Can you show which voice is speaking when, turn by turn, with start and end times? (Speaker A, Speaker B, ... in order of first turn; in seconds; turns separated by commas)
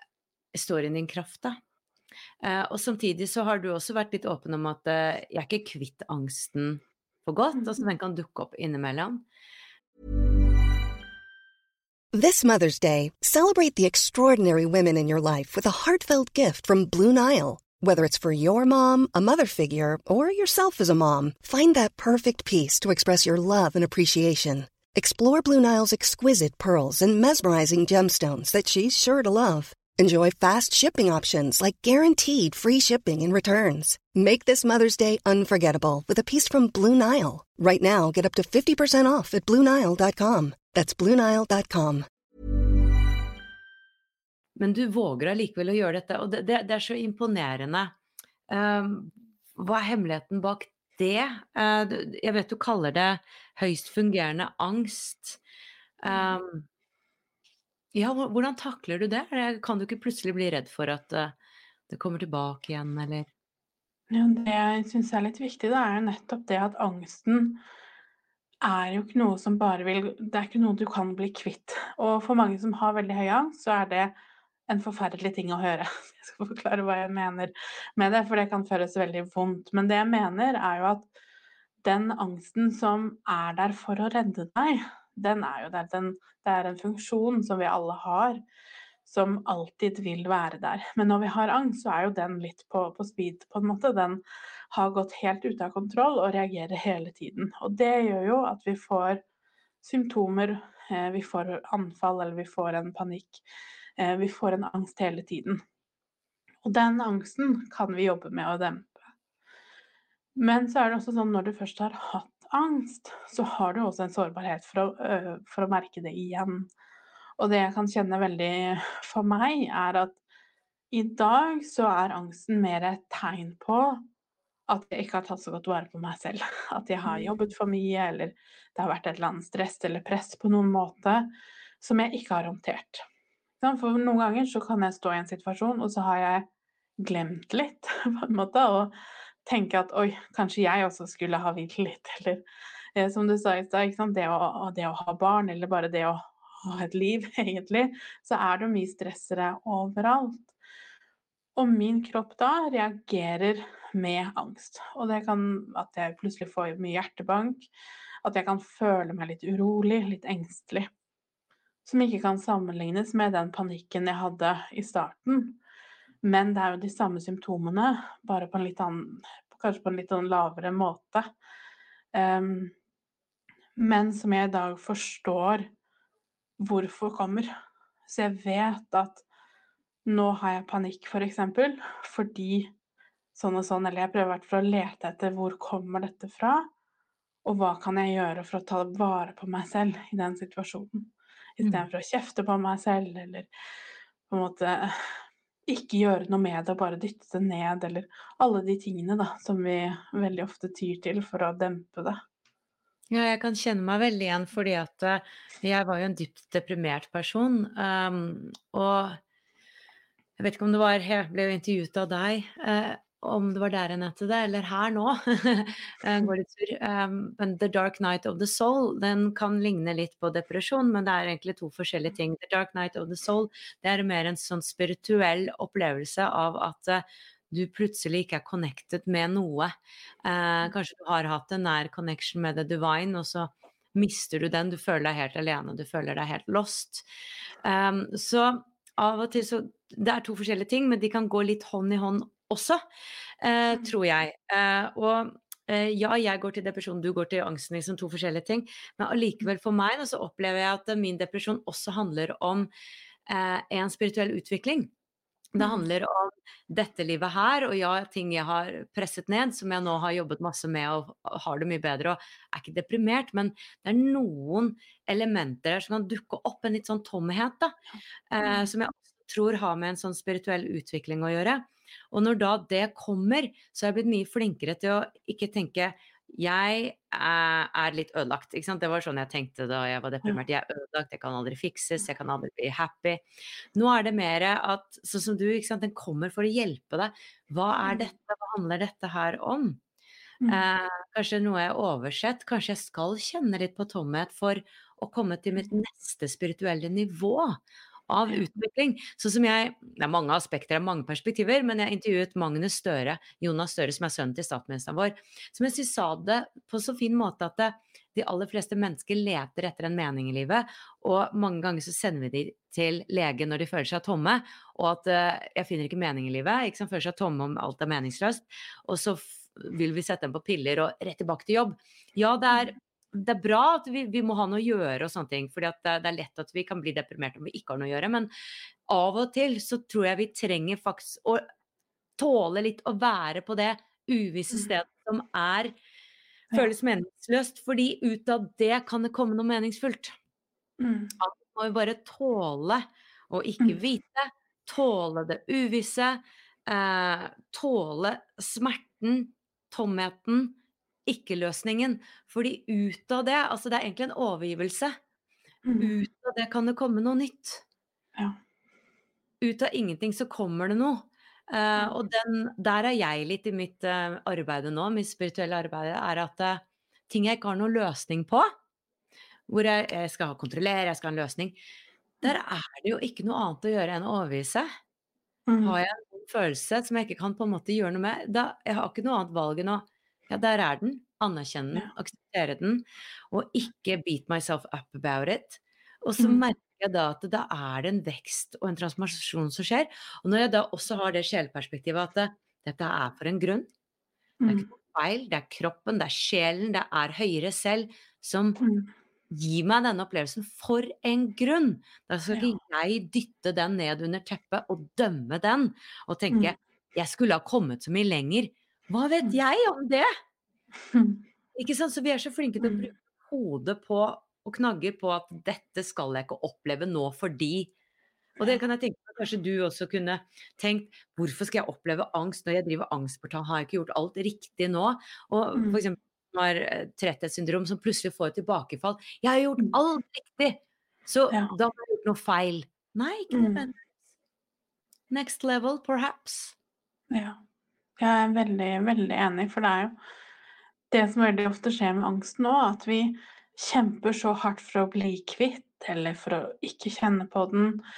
Speaker A: 0.5-1.6, Speaker A: 2.4-9.2, Speaker B: 12.1-42.1, Speaker A: 44.6-47.9, Speaker A: 48.5-55.4, Speaker A: 56.0-56.6, Speaker C: 56.1-56.4, Speaker A: 57.9-61.3, Speaker A: 61.9-63.3, Speaker C: 64.1-67.6, Speaker C: 68.6-74.1, Speaker C: 74.7-81.1, Speaker C: 81.8-88.4, Speaker C: 89.1-99.2, Speaker C: 99.8-103.4, Speaker C: 104.0-105.6, Speaker C: 106.6-109.0, Speaker C: 110.4-116.7, Speaker C: 117.4-120.2, Speaker C: 120.9-124.0, Speaker C: 124.7-133.1, Speaker C: 133.6-136.5, Speaker C: 137.0-138.9, Speaker C: 139.5-142.4, Speaker C: 142.9-150.5, Speaker C: 151.6-157.7, Speaker C: 158.2-160.9, Speaker C: 161.9-165.6, Speaker C: 166.2-171.3, Speaker C: 172.1-172.7, Speaker C: 173.8-175.7, Speaker C: 176.6-177.5, Speaker C: 178.1-179.2, Speaker C: 180.1-182.7, Speaker C: 183.3-186.7, Speaker C: 187.4-193.5, Speaker C: 194.3-202.2, Speaker A: 203.1-209.2, Speaker A: 210.4-229.7, Speaker A: 230.2-237.1, Speaker A: 237.6-242.8, Speaker A: 243.4-252.7, Speaker A: 253.3-254.9, Speaker A: 255.5-267.8, Speaker C: 255.6-255.8, Speaker C: 267.9-268.7, Speaker A: 268.3-283.2, Speaker A: 283.8-289.8, Speaker C: 287.9-288.1, Speaker A: 290.5-328.3, Speaker A: 328.9-331.4, Speaker A: 332.2-335.7, Speaker A: 336.5-340.1, Speaker C: 340.8-341.1, Speaker A: 341.2-355.0, Speaker C: 355.6-356.0, Speaker A: 355.8-357.6, Speaker A: 359.4-368.5, Speaker A: 369.5-371.6, Speaker A: 372.2-374.7, Speaker C: 375.5-375.8, Speaker A: 375.6-393.7, Speaker C: 386.2-386.4, Speaker C: 394.4-394.7, Speaker A: 394.5-398.6, Speaker C: 398.6-398.9, Speaker A: 399.3-410.1, Speaker C: 410.9-411.2, Speaker A: 411.6-417.7, Speaker A: 418.4-433.8, Speaker C: 433.3-433.7, Speaker A: 435.1-436.6, Speaker C: 437.1-437.4, Speaker C: 438.0-440.0, Speaker C: 440.9-447.8